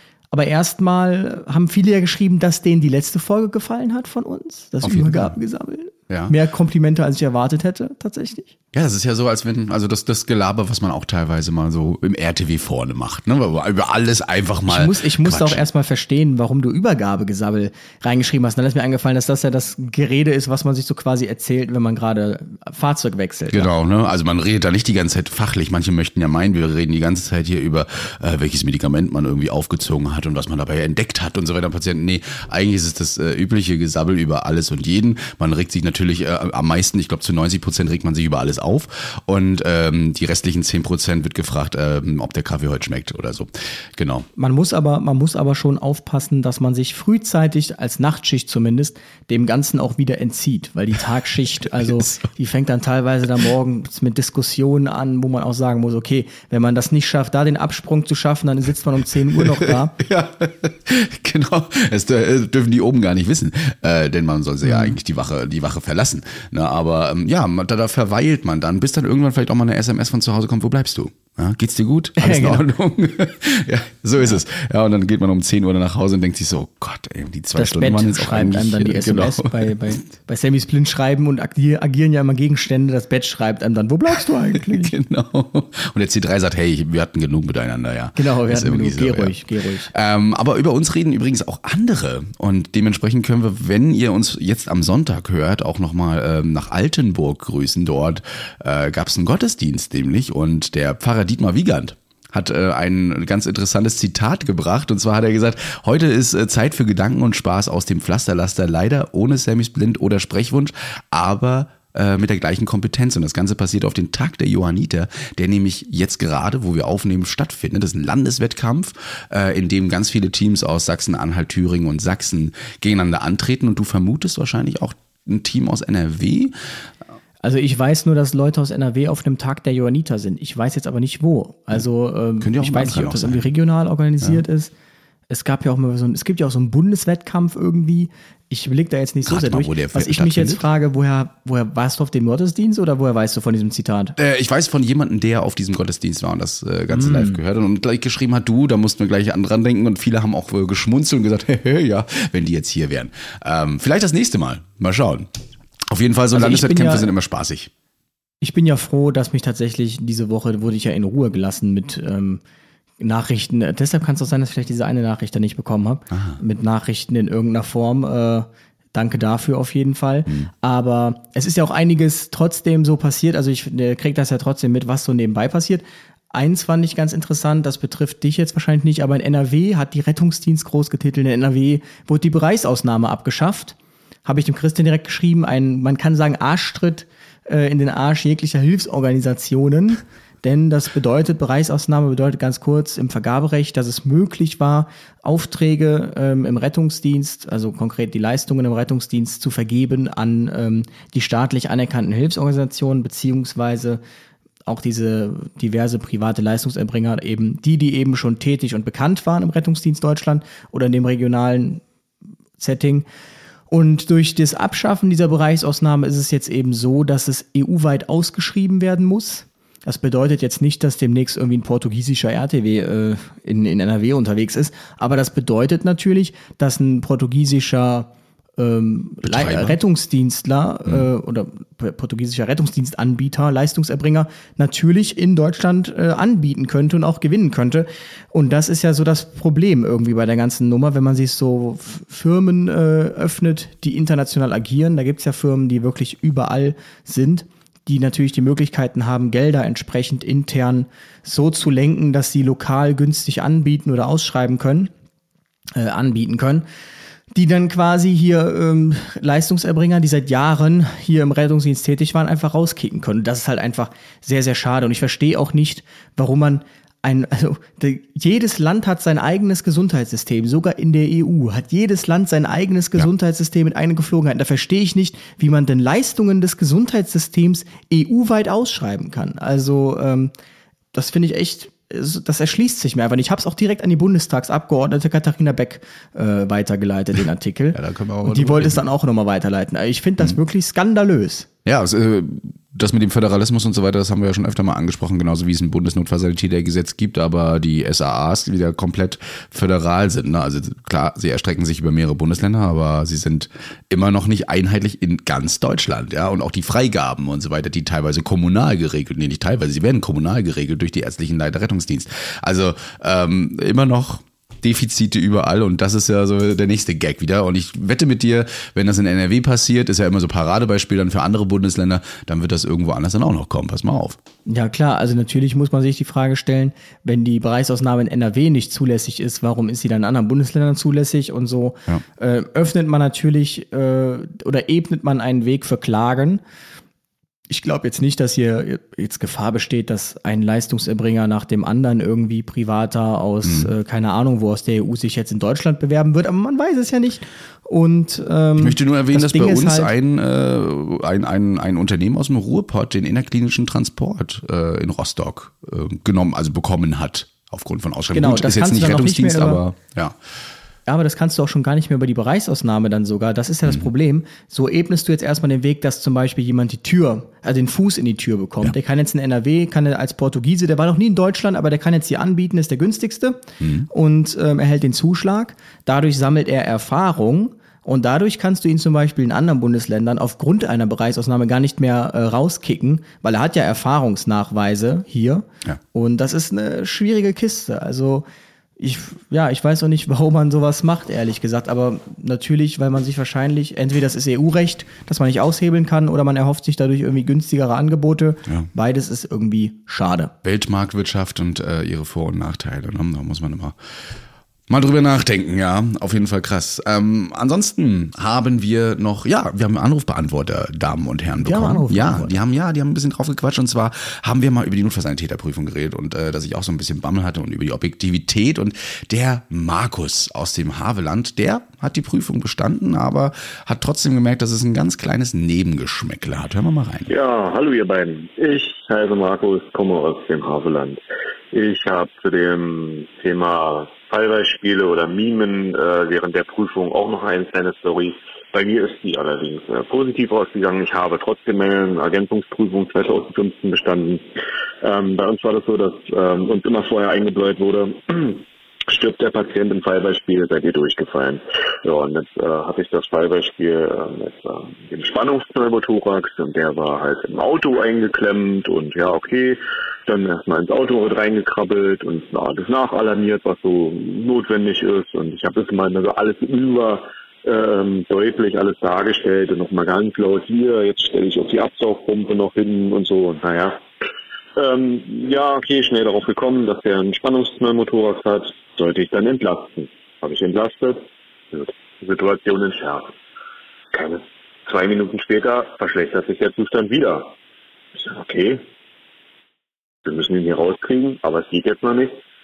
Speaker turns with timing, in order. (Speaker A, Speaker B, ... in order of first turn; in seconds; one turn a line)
Speaker A: 0.3-8.5
Speaker B: 4.8-5.3
Speaker B: 6.1-6.3
Speaker B: 8.7-15.6
Speaker A: 14.7-23.7
Speaker B: 23.5-44.3
Speaker A: 44.4-59.9
Speaker B: 51.9-52.3
Speaker B: 59.4-79.7
Speaker A: 64.6-65.0
Speaker A: 72.2-72.7
Speaker A: 77.6-84.9
Speaker B: 84.5-89.4
Speaker A: 88.2-89.9
Speaker B: 89.9-126.5
Speaker A: 127.4-134.7
Speaker B: 132.4-133.5
Speaker A: 135.3-144.2
Speaker B: 139.2-140.7
Speaker B: 144.2-155.3
Speaker A: 146.9-147.4
Speaker B: 155.9-157.7
Speaker A: 156.3-157.1
Speaker A: 158.4-162.4
Speaker A: 163.0-204.0
Speaker B: 166.1-166.4
Speaker A: 204.7-211.8
Speaker A: 212.6-213.1
Speaker A: 213.7-254.9
Speaker B: 229.2-229.8
Speaker A: 255.7-256.6
Speaker A: 257.3-280.3
Speaker A: 280.9-291.5
Speaker B: 287.7-288.8
Speaker B: 291.6-324.2
Speaker A: 324.5-336.4
Speaker A: 337.5-349.9
Speaker B: 343.4-343.7
Speaker B: 348.6-360.2
Speaker A: 358.1-359.6
Speaker A: 360.9-388.3
Speaker B: 373.6-373.9
Speaker A: 388.8-400.3
Speaker B: 400.4-403.8
Speaker B: 404.7-427.1
Speaker A: 411.4-412.4
Speaker C: 427.1-431.0
Speaker C: 431.5-444.2
Speaker C: 444.8-473.8
Speaker C: 474.6-483.1
Speaker C: 483.9-487.3
Speaker C: 488.0-488.6
Speaker C: 490.1-492.1